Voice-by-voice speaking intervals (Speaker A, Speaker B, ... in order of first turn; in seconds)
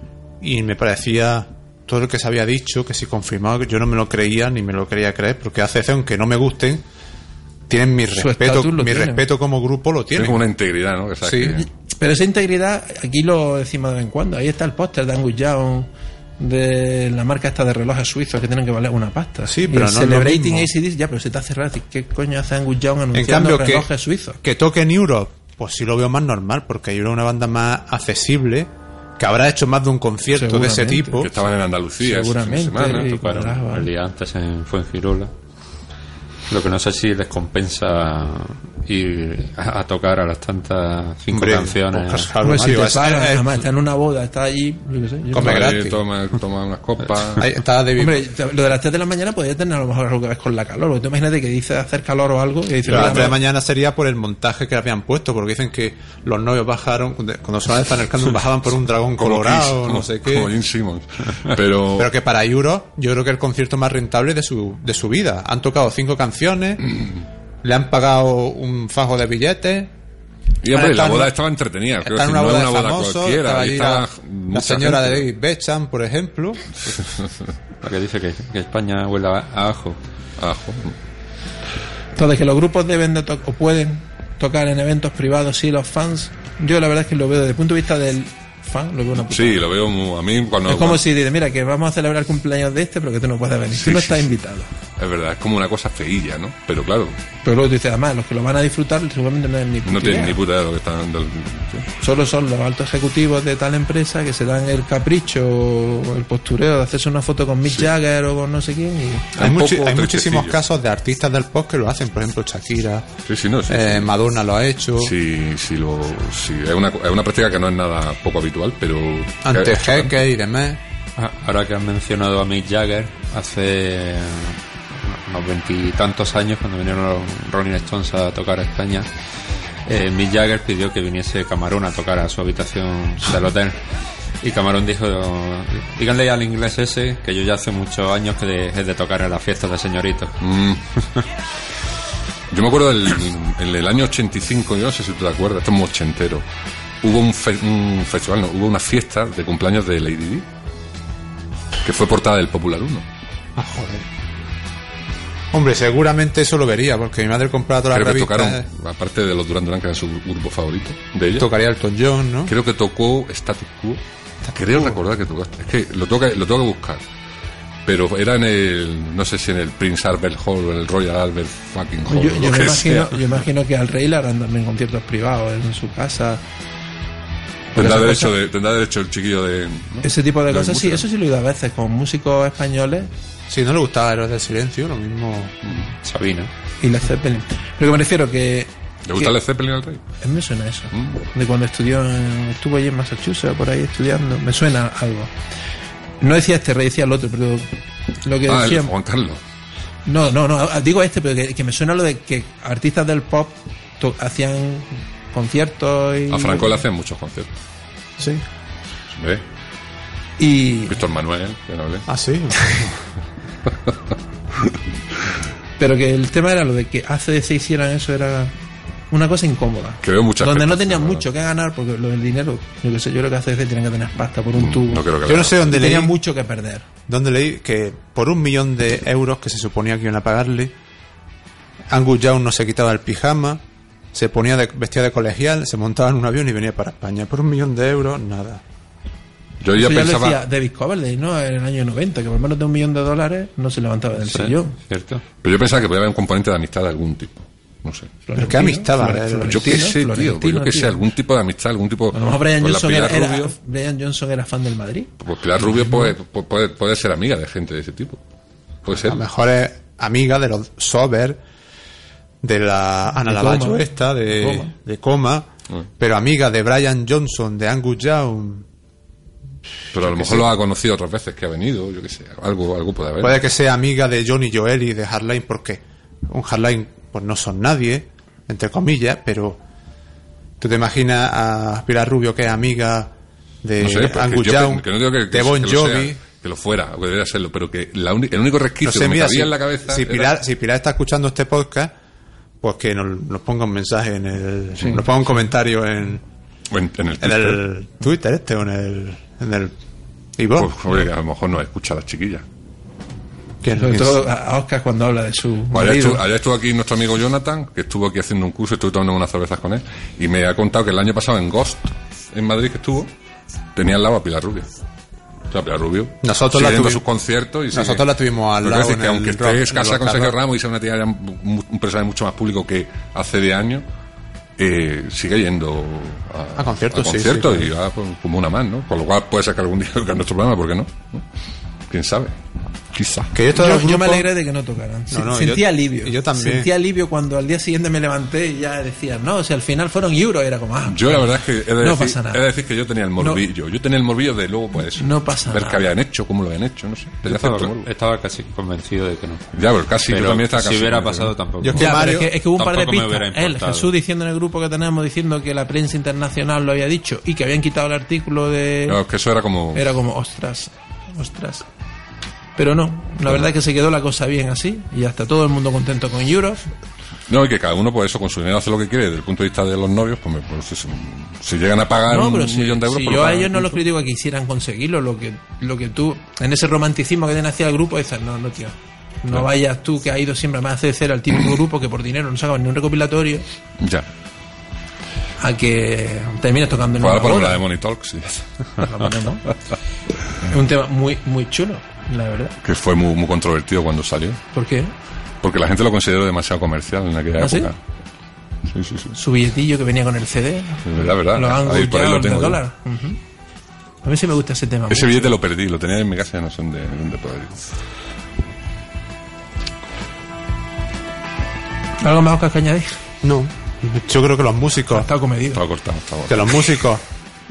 Speaker A: 0.4-6.8, 7.7-10.4, 11.2-11.6, 19.5-20.7, 23.1-23.9, 24.4-31.3, 41.3-43.6, 45.3-46.0, 47.4-48.2, 52.9-60.5, 62.0-67.0, 67.6-69.9, 70.7-71.4, 72.0-77.0, 109.4-113.0, 113.7-115.2, 119.5-120.8, 153.6-154.1, 155.5-158.7, 161.4-162.5, 183.5-185.6, 212.1-212.9, 225.3-226.1, 227.1-230.7, 231.9-233.6, 234.1-238.6, 248.4-249.8, 258.9-261.4, 262.4-265.5, 266.0-268.7, 269.9-270.5, 273.2-279.6, 280.6-283.1, 283.6-286.2, 288.8-291.9, 292.6-296.2, 297.2-299.7, 300.4-300.7, 303.6-304.3, 316.2-317.0, 317.7-320.4, 326.6-327.7, 333.3-334.3, 335.1-336.7, 351.6-352.3, 413.2-415.1, 416.3-417.0
Speaker B: 8.2-9.3, 11.9-24.4, 30.3-31.3, 32.0-33.9, 42.4-45.7, 48.0-53.4, 82.2-89.7, 90.7-94.7, 97.4-100.4, 101.9-109.3, 172.1-176.4, 177.7-178.3, 180.0-183.1, 186.8-189.4, 190.2-195.3, 196.2-199.0, 200.1-206.8, 210.4-211.0, 215.8-218.5, 219.1-225.1, 225.6-226.9, 239.7-244.8, 248.3-251.1, 252.1-255.1, 263.1-264.7, 303.8-306.3, 333.5-342.4, 343.2-343.4, 344.8-345.9, 351.8-359.0, 359.7-361.7, 362.6-366.6, 372.1-383.5, 385.4-387.6, 388.8-389.5, 390.4-392.6, 394.5-394.9, 397.4-397.7, 399.1-403.2, 404.0-405.4, 412.0-413.0, 414.9-415.6
Speaker C: 10.1-11.7, 31.2-33.1, 45.4-47.5, 52.9-53.3, 59.2-62.1, 70.6-75.3, 80.4-81.0, 89.2-91.0, 93.7-94.3, 95.0-97.2, 99.8-101.9, 109.3-110.6, 113.3-114.2, 115.0-120.1, 140.4-140.9, 142.5-146.4, 147.0-150.4, 151.8-153.1, 157.9-161.5, 162.5-167.0, 167.8-173.4, 177.8-181.0, 189.1-190.0, 190.9-191.2, 198.5-199.4, 206.3-207.5, 209.1-209.4, 210.9-212.1, 220.0-221.2, 224.6-225.8, 239.6-240.4, 245.4-248.2, 249.5-253.5, 255.2-258.2, 258.9-259.2, 269.9-273.4, 283.8-290.4, 296.7-297.6, 300.6-302.4, 305.7-313.1, 313.8-314.7, 315.5-323.9, 324.6-331.2, 331.9-332.3, 332.9-333.4, 340.9-347.9, 349.5-351.4, 358.9-359.9, 367.3-373.8, 383.8-384.1, 387.0-388.5, 392.6-394.4, 395.4-397.8, 398.7-399.1, 400.9-402.6, 404.9-407.7, 415.5-416.8
Speaker D: 32.9-35.3, 36.5-42.4, 77.8-80.0, 121.2-129.1, 129.8-133.8, 134.4-140.4, 186.0-186.5, 244.2-245.3, 347.2-353.9